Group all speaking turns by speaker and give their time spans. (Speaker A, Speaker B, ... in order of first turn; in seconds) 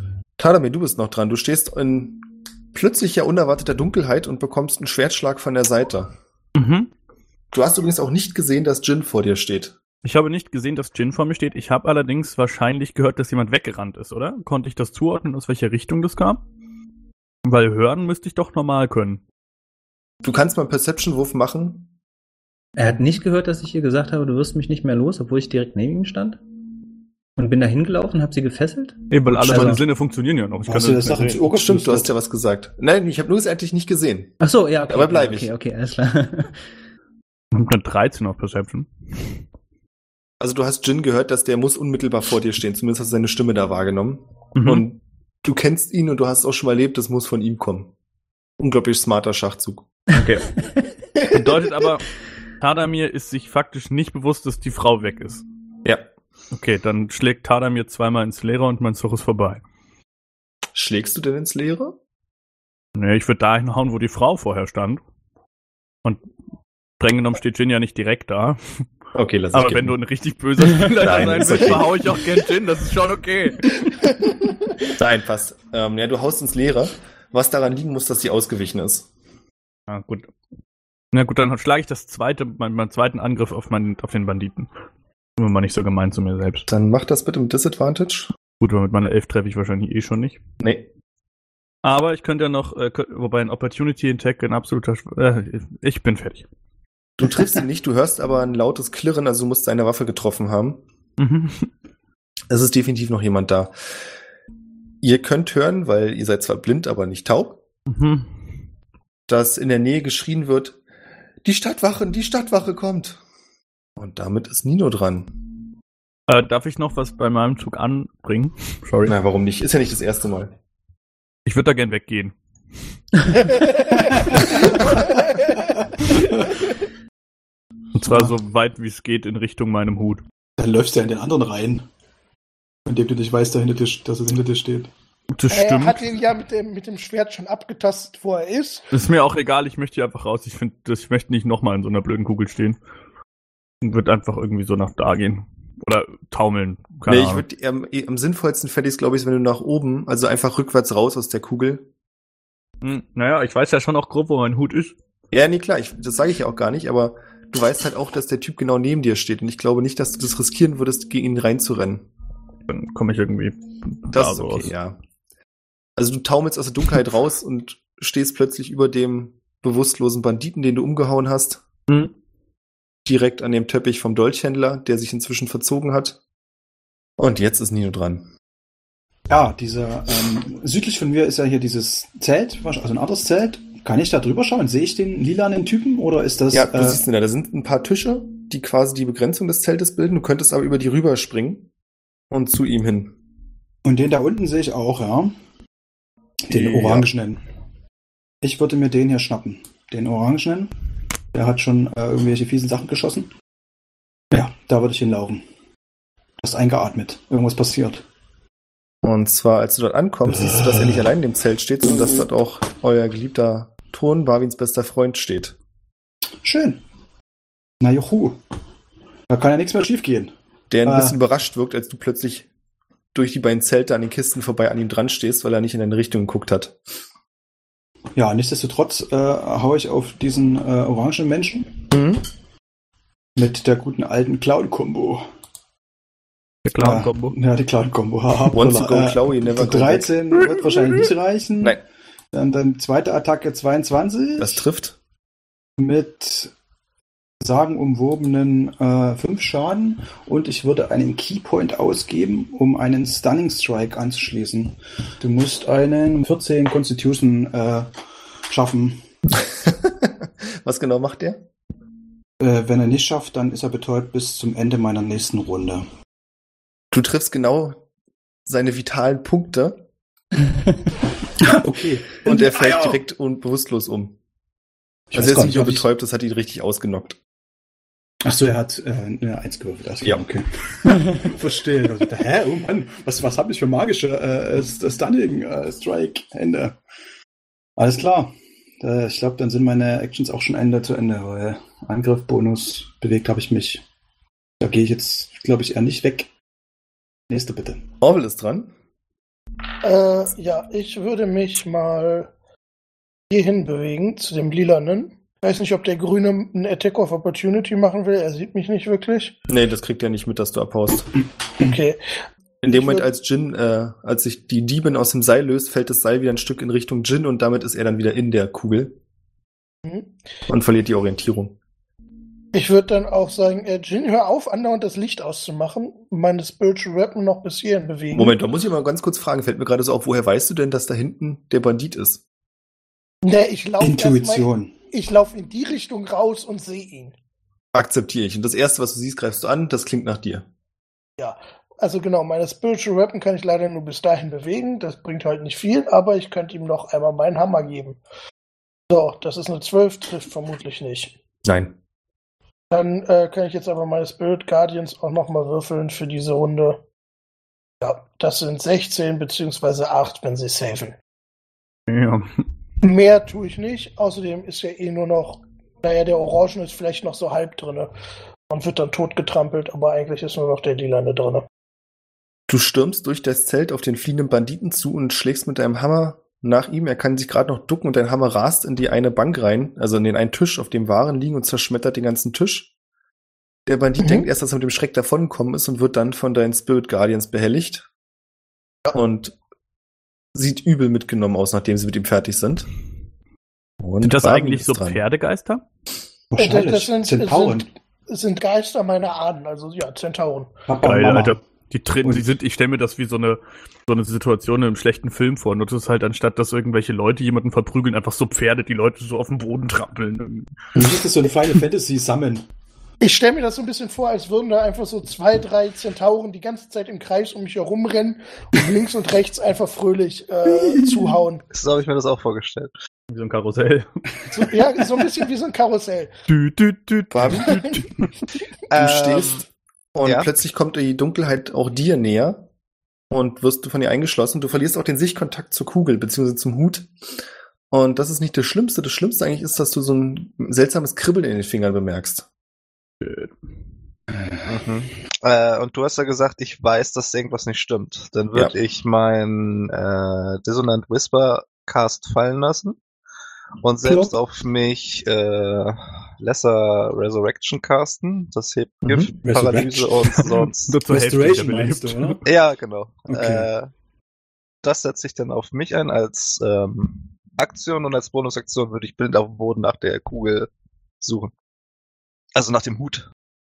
Speaker A: 0.4-6.1, 7.5-9.8, 20.2-21.9, 31.5-34.4, 34.9-35.5, 40.4-47.9, 48.6-50.4, 60.7-62.0, 69.1-70.0, 71.0-72.2, 74.9-79.1, 86.7-88.3, 90.6-90.9, 97.2-100.8, 102.5-103.7, 105.0-107.6, 109.3-110.8, 111.4-113.2, 114.0-115.3, 119.1-120.5, 147.1-151.8, 155.3-162.1, 164.1-165.0, 166.0-171.6, 173.1-176.2, 177.2-178.3, 186.5-191.7, 192.3-193.1, 196.5-197.1, 209.0-215.6, 220.7-222.5, 223.1-226.8, 231.9-232.2, 238.5-240.1, 244.4-244.9, 259.3-261.4, 266.9-267.8, 268.4-269.8, 272.2-274.1, 275.1-277.2, 298.0-298.7, 309.5-311.1, 312.6-318.9, 320.5-321.6, 328.1-332.2, 337.7-340.4, 351.4-351.7, 372.5-382.7, 383.7-387.9, 388.9-389.3, 390.3-392.7, 393.8-395.0, 427.1-427.8, 428.7-429.4, 429.9-432.4, 433.1-436.9, 437.7-442.2
Speaker B: 6.5-6.9, 10.0-16.4, 17.4-19.2, 29.1-31.4, 37.5-39.3, 44.5-44.8, 50.1-50.4, 51.2-52.1, 52.6-55.4, 56.5-59.6, 62.9-65.0, 67.0-68.6, 69.5-73.8, 79.9-80.3, 81.1-84.7, 85.4-86.7, 88.6-90.4, 91.8-96.5, 101.2-101.7, 107.9-108.3, 116.3-119.1, 121.5-122.3, 124.3-124.7, 127.9-130.2, 135.3-136.1, 138.9-142.8, 143.8-147.4, 152.8-154.9, 162.7-164.7, 236.7-237.3, 361.9-362.3, 394.0-395.6, 400.8-410.5, 423.1-424.1, 426.3-428.1, 443.0-443.3, 460.0-462.2
Speaker C: 22.8-26.4, 27.4-29.8, 34.4-36.6
Speaker D: 29.4-29.8, 30.6-32.1, 130.6-131.8, 132.8-134.9, 179.3-187.0, 193.8-195.3, 196.5-197.4, 198.4-200.7, 201.3-203.3, 204.3-205.4, 206.4-208.0, 210.3-211.1, 216.4-216.8, 217.8-218.4, 219.3-220.3, 220.8-221.2, 228.1-231.8, 233.3-235.2, 236.7-241.8, 242.3-244.6, 245.8-246.5, 247.4-257.9, 258.5-259.0, 262.4-265.8, 271.4-273.0, 275.1-275.8, 278.2-286.8, 287.8-293.8, 294.6-296.3, 297.3-297.9, 333.8-334.7, 396.3-397.7, 400.7-401.4, 402.0-402.3, 410.7-412.4, 420.6-421.1, 444.1-444.6, 453.8-454.1, 459.2-460.2, 460.9-462.2, 463.1-463.5
Speaker E: 135.5-138.8, 299.8-302.3, 303.3-309.3, 311.6-312.0, 312.7-313.1, 319.8-320.1, 322.5-328.3, 333.2-337.1, 341.2-348.0, 348.9-351.1, 352.7-356.8, 357.8-361.0, 362.8-367.9, 368.5-371.4, 384.0-384.3, 396.4-400.5, 413.0-421.4, 424.3-426.1
Speaker F: 421.5-422.7, 428.7-429.4, 430.0-430.3, 444.4-452.8, 453.6-460.8, 462.2-463.7, 464.6-470.5, 471.0-471.3, 472.3-473.1